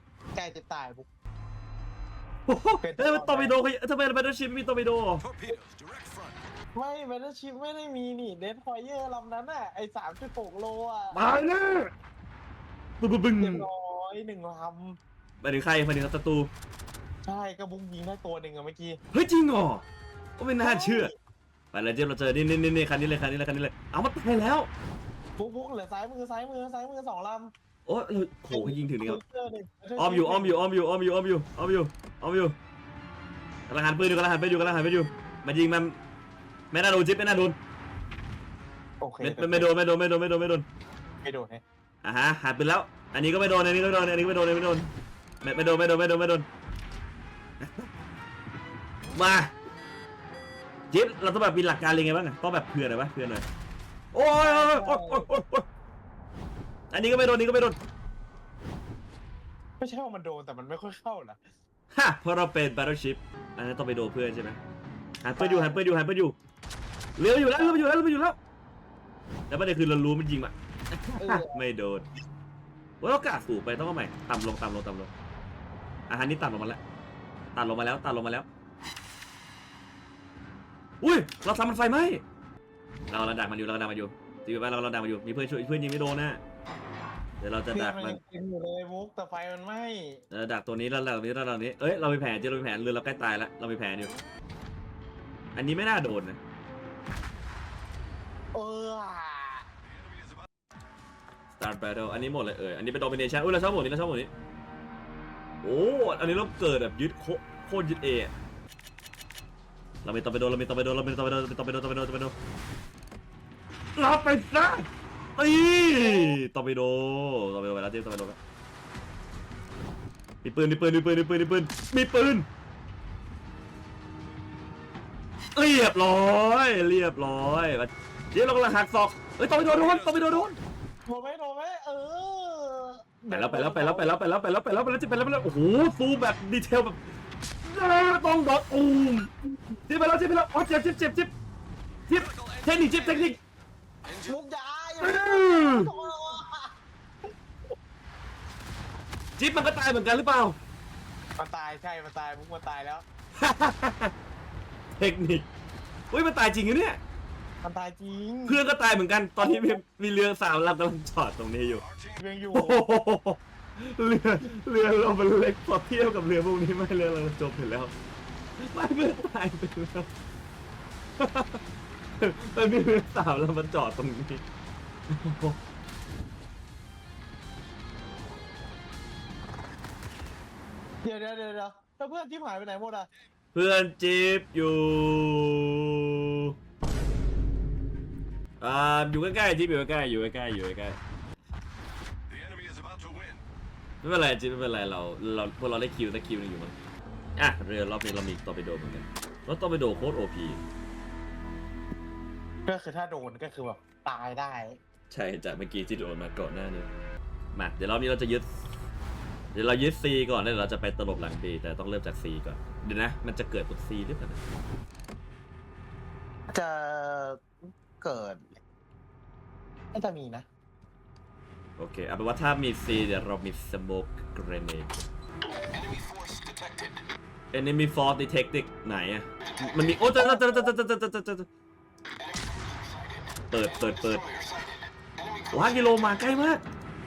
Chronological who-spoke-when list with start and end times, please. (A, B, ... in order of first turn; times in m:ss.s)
0:00.3-0:01.1 A
0:02.5-0:05.2 B
0:02.8-0:03.6 A
0:05.2-0:06.4 C
0:06.7-0:11.2 A
0:11.1-0:11.9 B
0:13.0-0:13.7 B
0:13.4-0:15.0 A
0:15.4-0:16.5 B
0:17.2-0:19.0 A
0:19.1-0:19.8 B
0:20.4-0:21.1 B
0:20.6-0:21.1 A
0:21.7-0:24.7 B
0:25.4-0:27.5 A
0:27.8-0:29.2 B
0:28.5-0:30.6 A
0:30.0-0:32.6 B
0:33.7-0:36.0 B
0:36.7-0:37.6 B
0:39.0-0:39.7 A
0:39.2-0:40.6 B
0:41.2-0:41.6 A
0:42.0-0:46.5 B
0:47.6-0:47.9 B
0:49.1-0:49.5 B
0:50.9-0:53.4 B
0:54.1-0:55.6 B
0:54.4-0:55.3 A
0:56.9-0:57.8 B
0:59.8-1:01.4 A
1:01.9-1:04.6 B
1:05.2-1:06.4 B
1:05.4-1:05.8 A
1:07.2-1:08.4 B
1:07.5-1:07.8 A
1:09.5-1:12.0 B
1:11.2-1:11.6 A
1:13.0-1:15.1 B
1:16.1-1:16.8 B
1:17.5-1:18.4 B
1:21.0-1:22.2 B
1:23.1-1:26.4 B
1:27.4-1:28.2 B
1:27.7-1:30.2 A
1:30.3-1:34.1 B
1:35.5-1:36.4 B
1:38.5-1:39.6 A
1:41.5-1:44.3 B
1:45.6-1:48.3 B
1:50.0-1:52.3 B
1:54.0-1:58.4 B
1:56.0-1:56.3 A
2:00.4-2:02.5 B
2:05.5-2:10.6 B
2:09.6-2:10.6 C
2:11.0-2:14.2 A
2:13.3-2:17.0 B
2:17.6-2:19.3 B
2:19.9-2:21.3 B
2:22.1-2:23.4 B
2:22.2-2:23.3 C
2:24.2-2:26.7 A
2:25.0-2:25.9 B
2:29.4-2:30.6 B
2:31.4-2:33.0 A
2:33.4-2:34.1 B
2:35.0-2:35.4 B
2:36.1-2:37.0 B
2:37.6-2:38.6 A
2:38.5-2:41.8 B
2:39.4-2:39.8 A
2:42.2-2:42.8 A
2:42.5-2:47.9 B
2:48.6-2:50.1 B
2:51.2-2:51.6 B
2:52.2-2:54.4 B
2:55.1-2:55.6 B
3:01.0-3:03.1 A
3:03.5-3:06.5 B
3:08.6-3:11.0 B
3:12.3-3:13.4 C
3:14.0-3:16.8 B
3:17.4-3:20.6 B
3:22.6-3:24.8 A
3:25.1-3:26.9 B
3:27.5-3:28.5 B
3:29.5-3:34.4 B
3:36.5-3:38.6 A
3:39.9-3:40.4 A
3:41.8-3:44.9 B
3:45.7-3:47.0 C
3:47.5-3:51.5 B
3:50.2-3:50.7 A
3:52.4-3:53.1 C
3:53.5-3:54.3 B
3:53.8-3:55.7 C
3:55.5-3:56.6 B